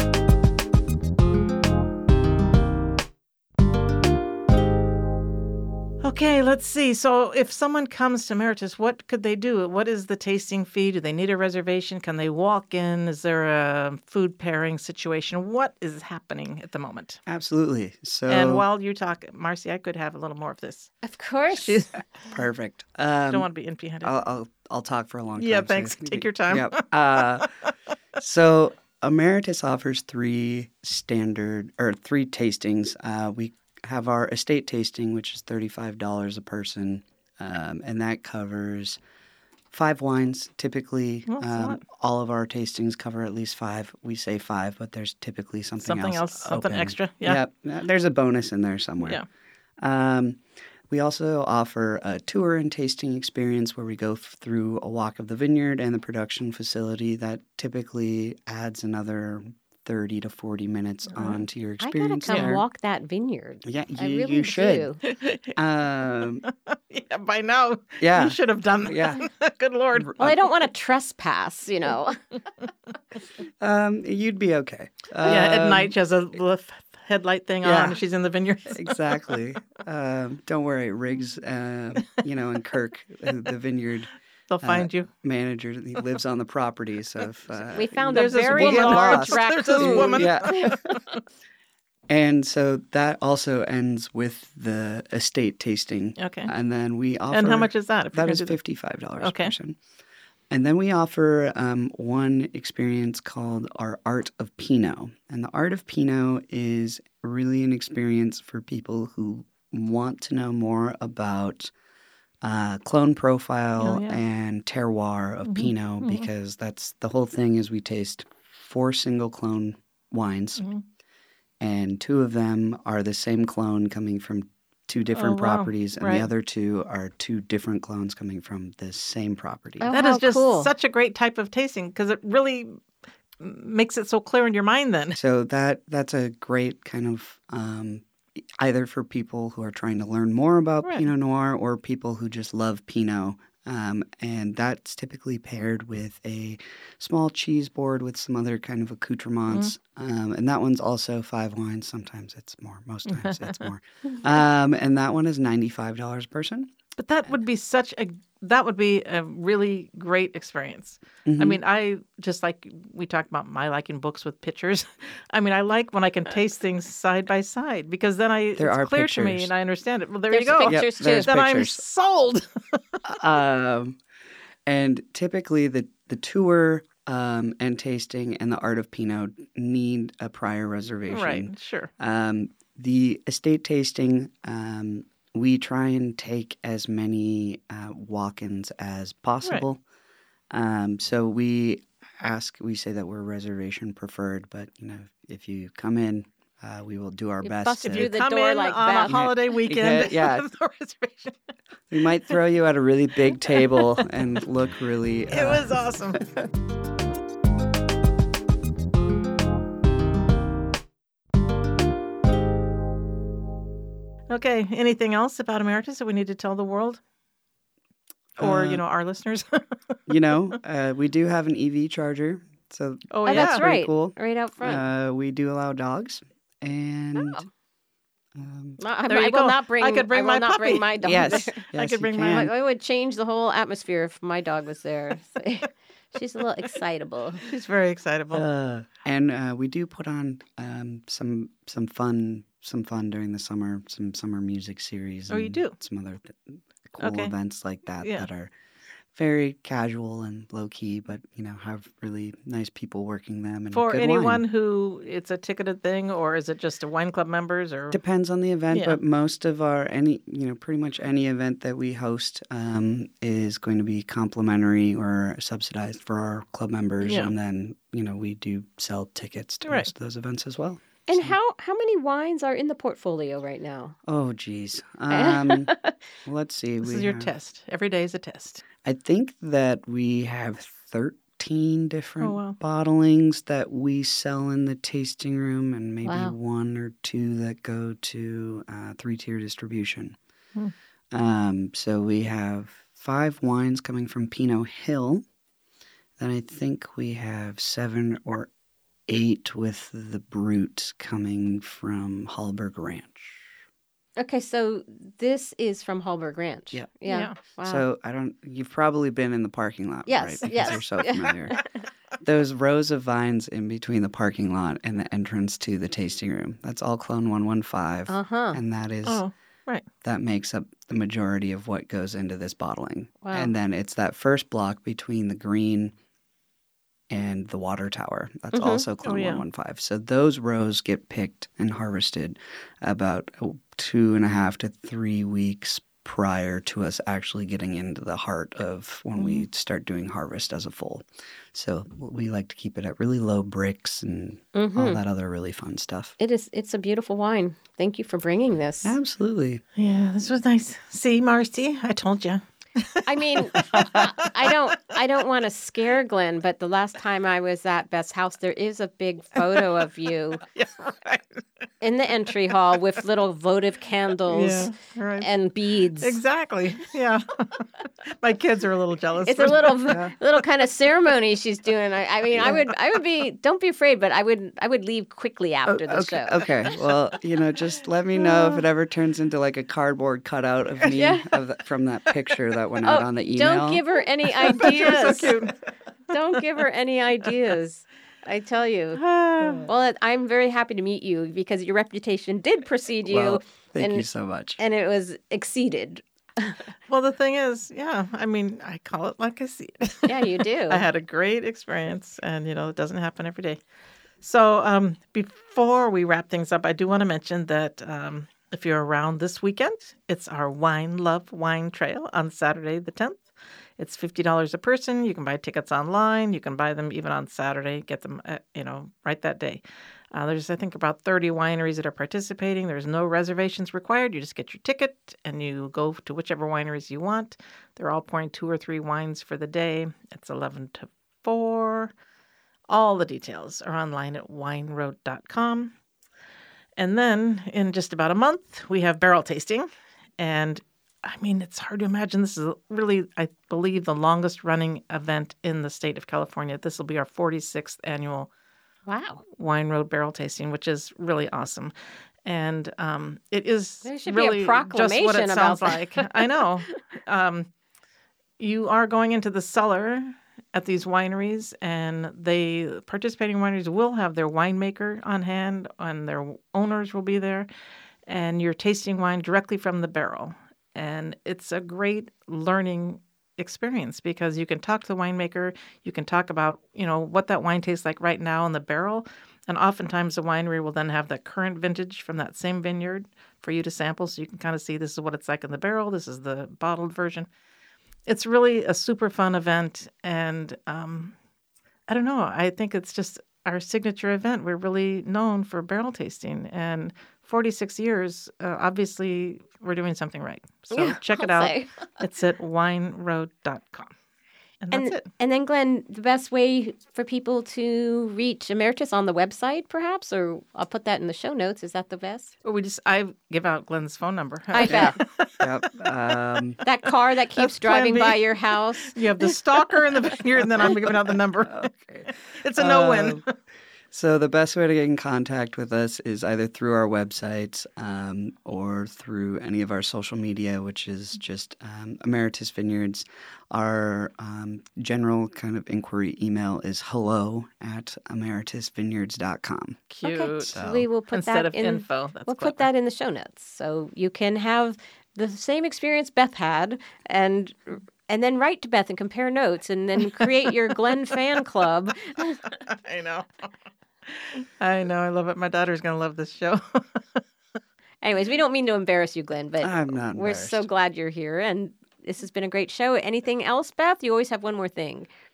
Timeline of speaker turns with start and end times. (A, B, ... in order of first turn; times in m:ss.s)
0:06.0-0:17.2 A
0:17.3-0:18.6 B
0:18.3-0:20.9 A
0:21.0-0:21.9 C
0:21.6-0:21.9 A
0:22.2-0:23.5 B
0:23.3-0:24.1 A
0:24.0-0:27.5 B
0:25.4-0:27.5 A
0:28.2-0:39.0 B
0:39.7-0:49.2 B
0:41.3-0:41.8 A
0:45.8-0:47.4 A
0:49.8-1:02.6 B
1:01.8-1:05.0 C
1:02.3-1:02.6 A
1:03.6-1:06.5 B
1:05.0-1:05.5 A
1:06.4-1:10.2 A
1:08.0-1:09.2 B
1:10.0-1:10.4 B
1:10.2-1:12.2 C
1:13.6-1:15.9 B
1:15.2-1:19.4 A
1:17.6-1:18.0 B
1:18.7-1:24.1 B
1:24.5-1:25.1 A
1:24.6-1:30.8 B
1:27.7-1:30.9 C
1:28.1-1:31.0 A
1:32.1-1:39.8 B
1:36.2-1:36.5 A
1:37.3-1:38.6 A
1:39.2-1:39.5 A
1:40.5-1:51.7 B
1:52.4-2:00.7 B
1:53.8-1:54.2 A
1:55.5-1:56.3 A
2:01.6-2:09.9 B
2:05.1-2:06.3 A
2:09.8-2:10.7 C
2:09.9-2:12.8 A
2:13.4-2:15.2 A
2:15.2-2:36.7 B
2:29.5-2:29.7 A
2:33.1-2:33.7 A
2:37.0-2:53.0 A
2:41.3-2:41.6 B
2:48.6-2:49.5 B
2:50.3-2:51.3 C
2:50.6-2:51.8 B
2:53.0-2:54.0 B
2:54.7-3:09.8 B
3:01.1-3:01.9 A
3:10.5-3:18.1 B
3:17.4-3:19.2 C
3:17.8-3:21.4 A
3:19.0-3:20.5 B
3:21.9-3:26.2 B
3:23.5-3:24.4 A
3:25.3-3:26.3 A
3:34.3-3:37.0 A
3:38.4-3:38.8 B
3:38.4-3:40.6 A
3:40.1-3:47.5 B
3:43.1-3:43.6 A
3:43.3-3:44.8 C
3:47.2-3:47.4 C
3:48.4-3:48.8 B
3:48.8-3:51.6 C
3:49.1-3:52.5 A
3:51.0-3:52.5 B
3:52.2-3:57.4 C
3:57.4-3:58.5 A
3:58.3-4:08.5 B
4:05.3-4:05.8 A
4:07.0-4:07.3 A
4:08.0-4:08.3 A
4:09.1-4:14.4 B
4:13.7-4:18.0 A
4:17.9-4:31.4 B
4:18.7-4:19.0 A
4:27.0-4:27.3 A
4:29.7-4:29.9 A
4:31.1-4:34.0 C
4:34.1-4:35.7 B
4:35.1-4:36.0 C
4:36.2-4:37.3 B
4:36.8-4:38.6 A
4:38.8-4:50.2 B
4:42.2-4:42.6 A
4:46.0-4:46.4 C
4:51.1-4:55.2 B
4:56.2-4:58.5 B
4:59.1-5:03.5 B
5:04.2-5:07.9 C
5:07.1-5:07.4 A
5:07.6-5:11.6 B
5:10.1-5:11.8 C
5:12.2-5:19.2 B
5:18.1-5:18.6 C
5:19.1-5:19.9 A
5:20.0-5:25.9 B
5:23.2-5:23.5 C
5:27.1-5:46.2 B
5:28.5-5:28.9 C
5:29.0-5:29.4 A
5:39.2-5:39.4 A
5:44.5-5:45.0 C
5:46.2-5:49.0 C
5:48.8-5:49.6 B
5:49.8-5:54.8 A
5:53.0-6:00.4 C
6:00.5-6:01.4 A
6:01.8-6:06.2 C
6:04.3-6:05.3 A
6:06.0-6:10.0 A
6:09.2-6:16.5 C
6:09.9-6:10.1 B
6:12.3-6:12.7 B
6:15.7-6:23.8 B
6:21.0-6:21.3 C
6:22.8-6:25.4 C
6:24.4-6:25.5 A
6:24.6-6:25.4 B
6:26.1-6:29.0 C
6:29.0-6:29.7 A
6:29.4-6:29.7 B
6:29.7-6:34.1 C
6:33.1-6:34.6 B
6:34.6-6:36.6 C
6:36.9-6:43.6 A
6:40.1-6:40.8 C
6:44.2-6:53.2 A
6:53.8-7:11.9 A
7:12.7-7:15.7 A
7:16.8-7:19.7 A
7:20.2-7:28.3 A
7:28.9-7:29.2 C
7:29.3-7:31.7 A
7:32.3-7:37.5 A
7:33.8-7:36.4 C
7:38.4-7:47.5 A
7:48.1-8:07.3 A
8:08.1-8:11.1 A
8:11.9-8:23.9 A
8:20.7-8:21.9 C
8:24.6-8:25.1 A
8:24.7-8:32.3 C
8:32.4-8:35.9 A
8:34.5-8:35.0 C
8:34.6-8:36.6 B
8:36.6-8:39.4 C
8:37.3-8:43.3 A
8:41.4-8:43.2 B
8:43.9-8:59.8 B
8:59.9-9:00.6 A
9:00.0-9:12.5 C
9:00.6-9:00.9 B
9:01.1-9:02.7 A
9:12.5-9:13.4 A
9:14.1-9:17.2 A
9:18.0-9:25.1 C
9:19.6-9:20.7 B